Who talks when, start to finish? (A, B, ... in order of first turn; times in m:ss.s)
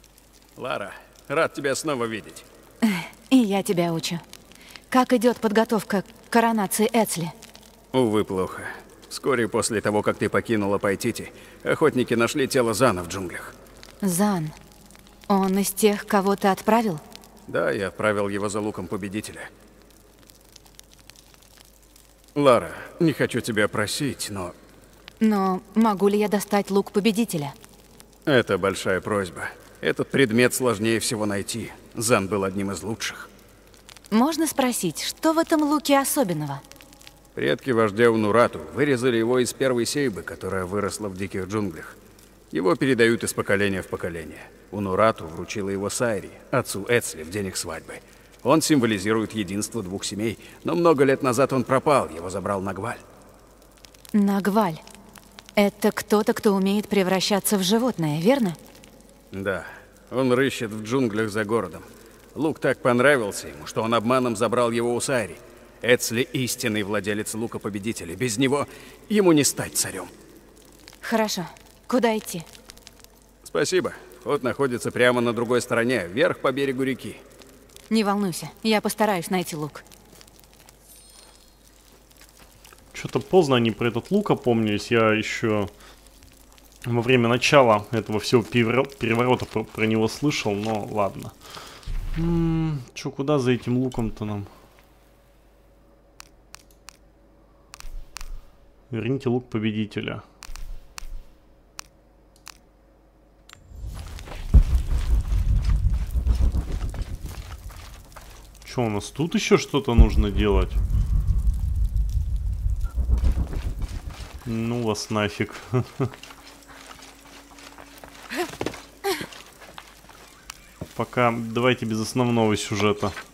0:00.6-0:02.4 A
0:02.8-0:04.2 B
0:04.9-0:07.3 B
0:07.9-0:13.6 A
0:14.0-0:14.6 B
0:15.3-0:17.0 B
0:17.5-0:19.5 A
0:22.4-0:24.6 A
0:25.2-0:27.5 B
0:28.2-0:33.3 A
0:34.1-0:36.6 B
0:37.3-0:42.0 A
0:42.5-0:53.0 A
0:54.1-0:54.8 B
0:55.6-0:58.6 B
0:59.3-1:10.1 A
1:11.0-1:12.4 B
1:13.4-1:17.2 A
1:17.9-1:19.8 B
1:22.9-1:25.7 C
1:26.8-1:31.3 C
1:32.1-1:34.5 C
1:38.9-1:40.2 C
1:48.6-1:50.8 C
1:54.4-1:56.1 C
2:01.0-2:03.2 C